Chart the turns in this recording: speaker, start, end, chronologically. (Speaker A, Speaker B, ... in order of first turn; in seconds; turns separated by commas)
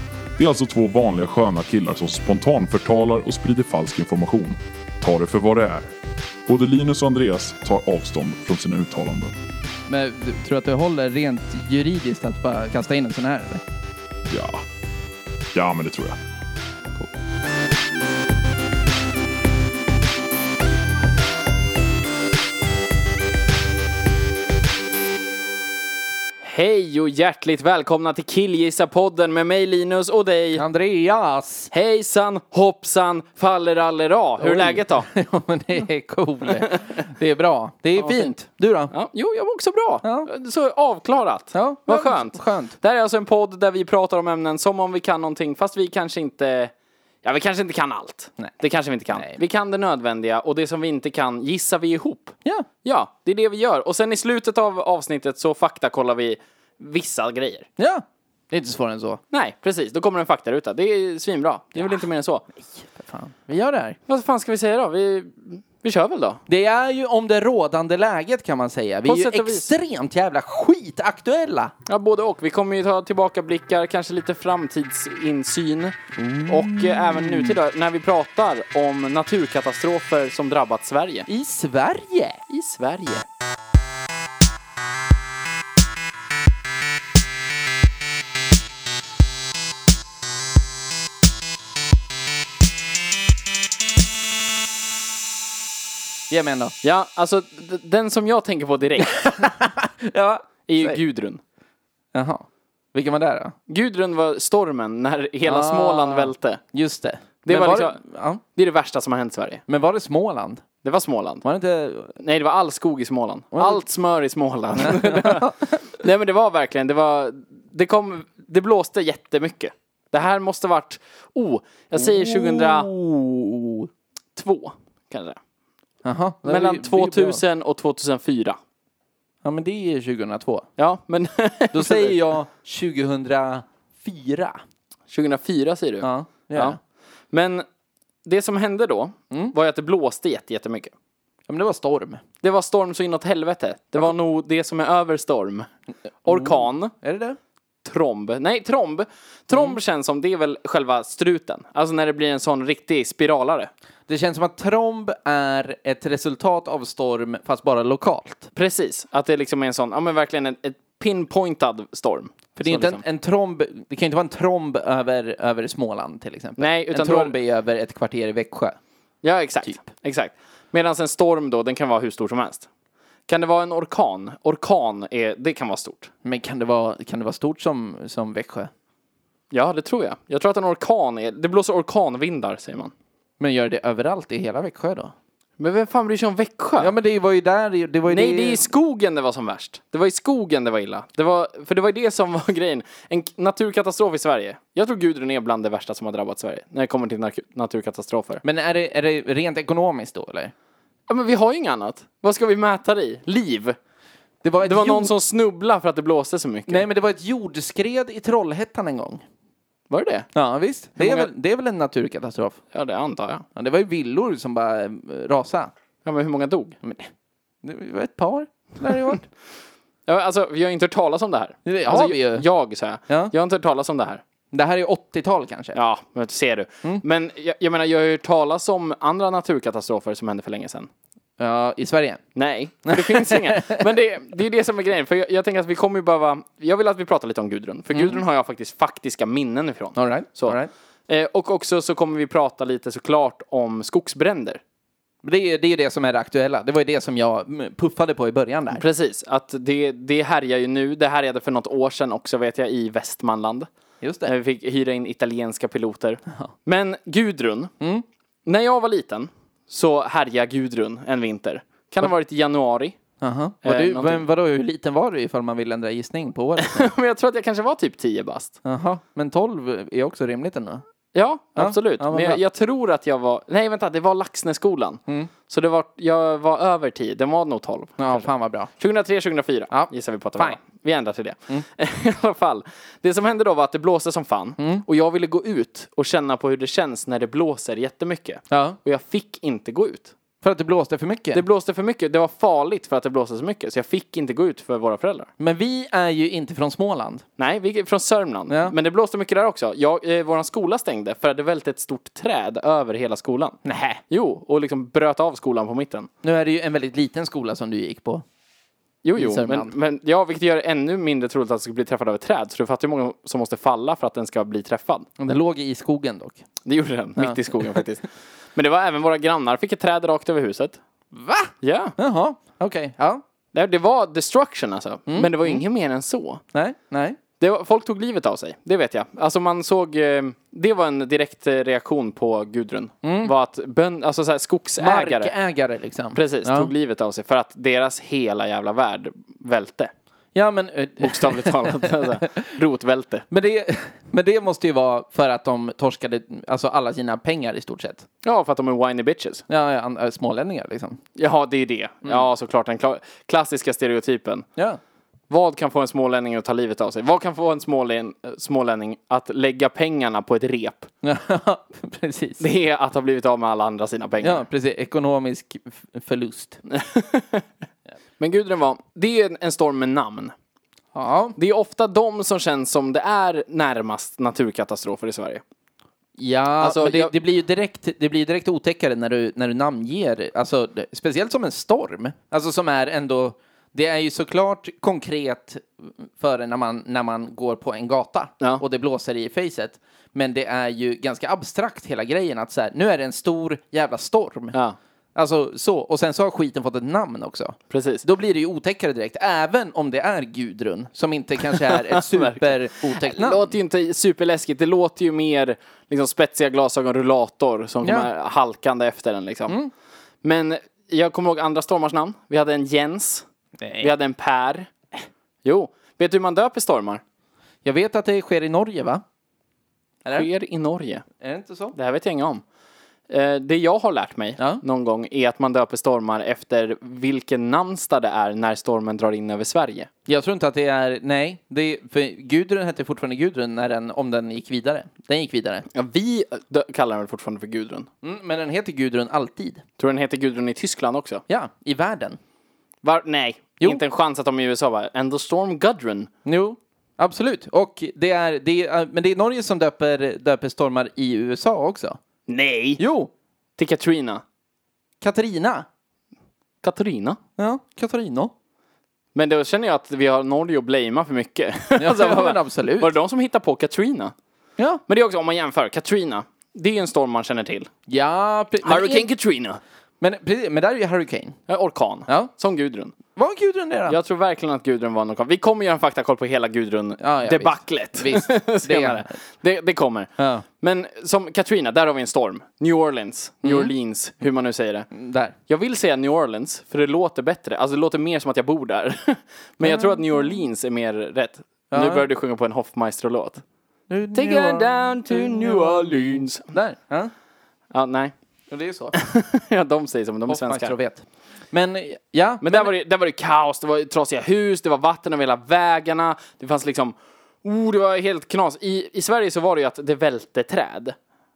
Speaker A: 0.4-5.9, Speaker A: 6.5-9.3, Speaker B: 9.9-13.6, Speaker A: 14.3-14.6, Speaker A: 15.5-16.2, Speaker C: 26.4-30.6, Speaker B: 30.6-31.7, Speaker C: 31.7-35.1, Speaker B: 34.4-38.9, Speaker C: 36.6-37.0, Speaker C: 38.0-38.4, Speaker C: 38.9-57.7, Speaker B: 40.0-40.3, Speaker B: 41.5-42.8, Speaker B: 49.1-49.4, Speaker B: 57.8-59.2, Speaker C: 59.3-62.5, Speaker B: 62.8-64.0, Speaker C: 64.1-66.4, Speaker B: 66.5-71.7, Speaker C: 69.1-69.7, Speaker C: 71.9-81.3, Speaker B: 76.2-77.6, Speaker B: 81.3-82.4, Speaker C: 82.5-83.2, Speaker B: 96.3-96.7, Speaker C: 96.8-99.1, Speaker B: 99.0-101.0, Speaker C: 100.7-101.4, Speaker B: 102.1-103.5, Speaker C: 103.7-106.6, Speaker B: 105.5-108.4, Speaker C: 107.5-108.0, Speaker C: 108.5-109.6, Speaker B: 109.7-110.6, Speaker C: 110.8-111.5, Speaker B: 111.5-112.2, Speaker C: 112.2-122.9, Speaker B: 113.5-113.8, Speaker B: 114.8-115.5, Speaker B: 122.0-123.9, Speaker C: 124.3-125.4, Speaker B: 126.0-127.4, Speaker C: 126.5-128.6, Speaker B: 129.4-130.7, Speaker C: 130.8-132.2, Speaker B: 131.7-134.6, Speaker C: 135.1-136.8, Speaker B: 136.0-136.8, Speaker C: 137.3-137.7, Speaker C: 138.2-140.9, Speaker B: 141.5-142.2, Speaker C: 142.4-145.7, Speaker C: 146.2-146.9, Speaker B: 146.3-147.4, Speaker C: 147.8-153.7, Speaker B: 154.1-158.5, Speaker C: 158.6-163.0, Speaker B: 162.6-168.8, Speaker C: 166.6-167.3, Speaker C: 169.2-172.7, Speaker C: 173.3-176.1, Speaker B: 176.2-178.7, Speaker C: 179.5-182.9, Speaker B: 183.4-185.1, Speaker C: 185.6-186.9, Speaker B: 186.8-188.7, Speaker C: 188.1-198.4, Speaker B: 198.4-200.5, Speaker C: 201.1-203.8, Speaker B: 204.4-205.1, Speaker C: 204.6-206.8, Speaker B: 206.7-209.2, Speaker C: 209.9-210.3, Speaker B: 210.3-212.6, Speaker C: 211.0-211.3, Speaker C: 212.7-213.4, Speaker B: 213.6-215.7, Speaker C: 216.1-216.8, Speaker B: 216.8-217.1, Speaker B: 217.6-219.2, Speaker C: 220.1-224.2, Speaker B: 221.7-222.5, Speaker B: 224.5-225.8, Speaker C: 225.8-230.9, Speaker B: 231.4-232.2, Speaker C: 232.3-244.6, Speaker B: 232.9-233.8, Speaker B: 237.9-238.2, Speaker B: 240.0-240.7, Speaker B: 245.2-248.8, Speaker C: 248.7-253.7, Speaker B: 254.0-254.3, Speaker C: 254.2-257.7, Speaker C: 258.5-263.0, Speaker B: 263.2-266.9, Speaker C: 263.6-264.2, Speaker C: 266.6-268.6, Speaker B: 268.6-270.8, Speaker C: 271.1-290.1, Speaker B: 271.6-272.4, Speaker B: 278.0-278.7, Speaker B: 279.7-280.6, Speaker B: 284.6-284.8, Speaker B: 288.5-288.8, Speaker B: 290.4-291.4, Speaker C: 291.3-295.3, Speaker B: 295.4-297.2, Speaker C: 297.4-303.6, Speaker B: 298.5-298.8, Speaker B: 303.6-304.0, Speaker C: 304.1-306.1, Speaker B: 306.2-308.2, Speaker C: 309.0-315.1, Speaker B: 309.2-309.7, Speaker B: 315.2-316.4, Speaker C: 316.7-320.8, Speaker B: 317.2-317.8, Speaker B: 321.1-323.2, Speaker C: 321.6-321.9, Speaker C: 323.5-326.4, Speaker B: 325.1-325.6, Speaker B: 326.5-327.2, Speaker C: 327.4-335.3, Speaker B: 333.0-333.3, Speaker B: 334.8-336.7, Speaker C: 336.1-339.9, Speaker B: 340.3-342.4, Speaker C: 341.0-343.2, Speaker B: 343.3-348.1, Speaker C: 348.2-349.4, Speaker B: 349.5-351.0, Speaker C: 351.2-354.5, Speaker C: 355.3-360.9, Speaker B: 361.0-362.4, Speaker C: 362.4-364.4, Speaker B: 364.2-366.6, Speaker C: 366.7-367.5, Speaker C: 368.2-370.3, Speaker B: 370.9-371.4, Speaker C: 371.4-375.4, Speaker B: 376.2-394.6, Speaker C: 376.6-377.1, Speaker B: 395.1-403.5, Speaker C: 397.7-398.1, Speaker C: 401.5-409.6, Speaker B: 407.8-408.1, Speaker C: 410.2-413.3, Speaker B: 413.6-413.9, Speaker C: 413.8-414.7, Speaker C: 415.4-417.0, Speaker B: 417.6-419.0, Speaker C: 420.1-421.1, Speaker B: 421.2-421.8, Speaker C: 421.7-422.4, Speaker C: 423.1-429.9, Speaker B: 430.1-435.7, Speaker C: 435.7-437.9, Speaker B: 438.0-439.6, Speaker C: 439.8-441.2, Speaker B: 441.3-442.2, Speaker C: 442.8-446.1, Speaker B: 446.2-452.0, Speaker C: 452.3-452.8, Speaker B: 452.8-453.1, Speaker C: 453.6-454.2, Speaker B: 455.0-455.7, Speaker C: 456.6-457.2, Speaker B: 457.4-458.3, Speaker C: 459.1-464.1, Speaker B: 461.8-462.9, Speaker C: 464.9-467.7, Speaker B: 467.9-469.1, Speaker C: 468.6-469.6, Speaker B: 470.0-471.4, Speaker C: 471.5-473.0, Speaker B: 473.1-474.0, Speaker C: 473.9-484.9, Speaker B: 477.0-479.1, Speaker B: 480.2-480.4, Speaker B: 483.4-483.7, Speaker B: 484.9-485.4, Speaker C: 485.5-493.4, Speaker B: 489.6-490.2, Speaker B: 491.7-492.1, Speaker B: 493.9-497.1, Speaker C: 494.1-496.5, Speaker C: 497.7-498.1, Speaker B: 498.5-498.9, Speaker C: 498.9-500.8, Speaker B: 500.3-502.7, Speaker C: 502.4-511.0